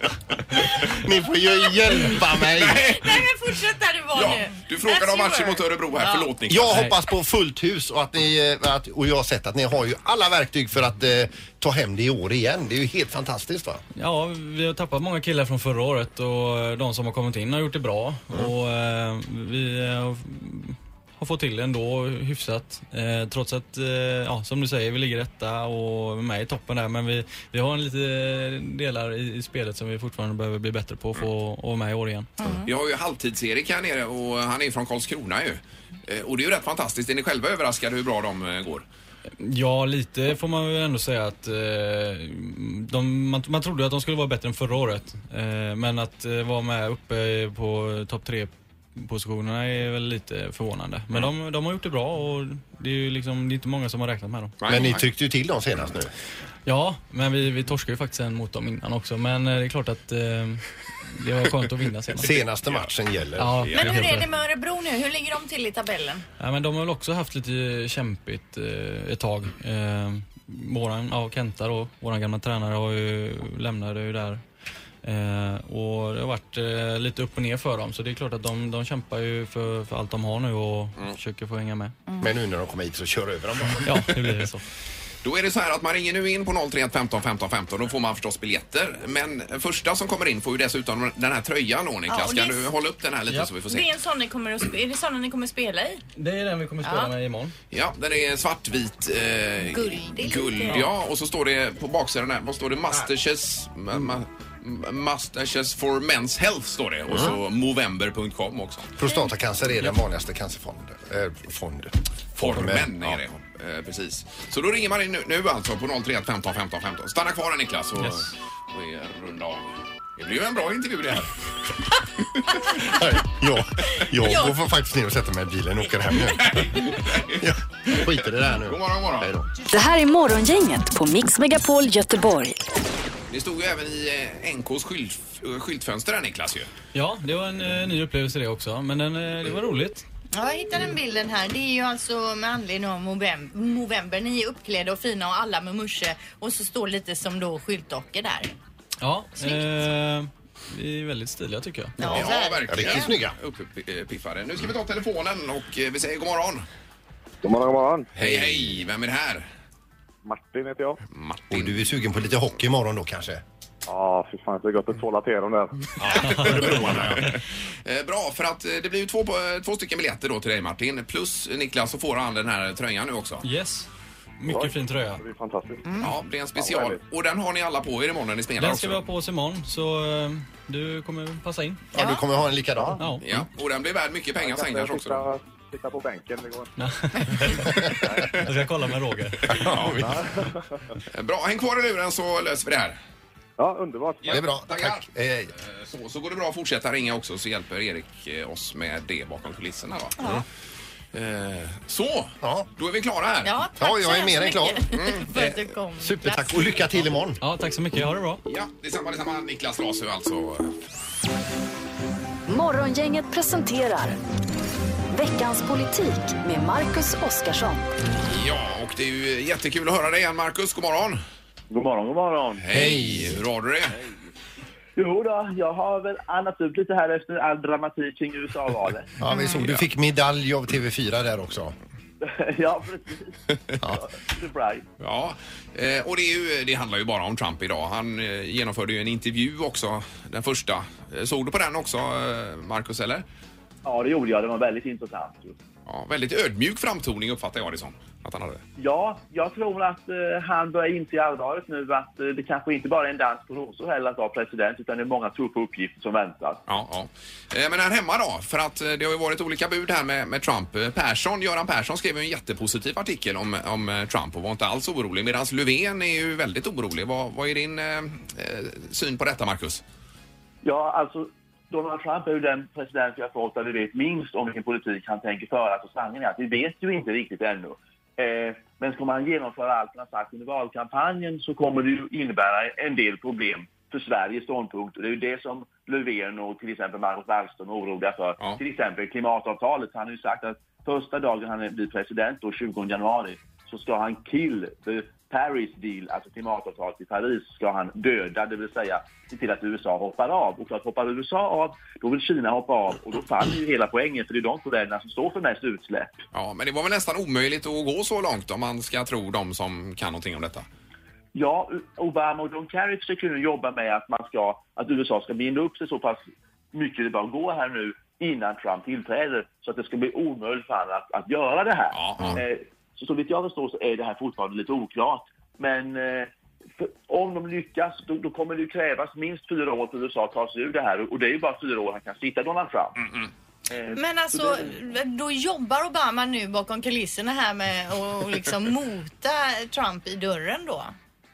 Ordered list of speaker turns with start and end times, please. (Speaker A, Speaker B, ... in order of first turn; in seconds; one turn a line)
Speaker A: 0.9-3.0
Speaker B: 2.5-3.3
Speaker C: 2.7-6.3
Speaker B: 4.1-6.8
Speaker A: 6.5-13.8
Speaker D: 6.7-7.0
Speaker D: 13.9-32.3
Speaker C: 32.4-32.7
Speaker B: 32.6-38.8
Speaker D: 39.4-54.6
Speaker B: 54.6-55.0
Speaker A: 54.7-56.1
Speaker D: 56.6-62.3
Speaker A: 62.2-63.7
Speaker B: 62.3-62.9
Speaker D: 63.4-64.3
Speaker B: 63.6-64.1
Speaker C: 63.7-66.2
Speaker D: 66.4-74.4
Speaker D: 75.0-81.9
Speaker A: 82.2-84.0
Speaker D: 83.8-84.6
Speaker B: 85.2-93.9
Speaker C: 92.1-92.7
Speaker C: 93.7-96.0
Speaker D: 96.2-97.5
Speaker C: 96.8-97.1
Speaker B: 97.7-108.9
Speaker C: 99.6-100.8
Speaker A: 109.0-113.2
Speaker B: 112.4-121.3
Speaker D: 118.0-118.3
Speaker A: 122.8-129.5
Speaker C: 124.2-124.6
Speaker B: 126.3-129.3
Speaker E: 129.7-132.6
Speaker B: 133.3-136.7
Speaker D: 136.9-140.0
Speaker C: 140.3-148.5
Speaker D: 149.0-152.0
Speaker C: 152.0-153.1
Speaker A: 152.0-153.3
Speaker B: 152.0-156.7
Speaker F: 157.4-158.4
Speaker B: 158.2-159.4
Speaker F: 160.2-161.0
Speaker B: 161.1-162.3
Speaker A: 161.5-163.4
Speaker F: 163.9-165.8
Speaker B: 166.0-173.4
Speaker D: 166.2-166.8
Speaker A: 166.3-167.2
Speaker D: 173.4-173.9
Speaker D: 174.4-175.2
Speaker F: 174.5-176.0
Speaker B: 176.0-179.0
Speaker F: 176.6-177.0
Speaker D: 178.6-181.8
Speaker A: 181.9-183.0
Speaker C: 181.9-182.2
Speaker D: 183.0-183.2
Speaker B: 183.2-185.2
Speaker F: 184.4-186.7
Speaker D: 186.8-189.8
Speaker F: 188.0-188.4
Speaker B: 189.6-190.2
Speaker F: 190.0-190.6
Speaker B: 191.1-193.0
Speaker F: 193.6-194.4
Speaker B: 194.2-200.4
Speaker A: 194.3-195.5
Speaker C: 200.2-200.4
Speaker B: 201.1-203.6
Speaker A: 202.4-202.7
Speaker C: 203.4-206.8
Speaker A: 203.8-204.8
Speaker B: 204.9-205.7
Speaker A: 206.0-207.4
Speaker D: 207.4-208.4
Speaker B: 208.4-210.7
Speaker E: 212.5-214.2
Speaker E: 215.1-217.9
Speaker B: 218.2-221.2
Speaker G: 221.7-222.6
Speaker B: 222.6-223.9
Speaker A: 222.7-223.4
Speaker G: 225.0-229.1
Speaker A: 229.2-231.7
Speaker C: 229.3-229.6
Speaker B: 229.5-229.8
Speaker G: 232.2-234.8
Speaker B: 235.0-243.2
Speaker G: 243.8-245.6
Speaker B: 245.8-248.6
Speaker G: 248.8-256.6
Speaker B: 256.7-269.8
Speaker G: 270.6-306.2
Speaker B: 306.3-310.6
Speaker G: 311.3-333.0
Speaker B: 321.9-322.4
Speaker G: 333.7-334.8
Speaker C: 333.9-340.9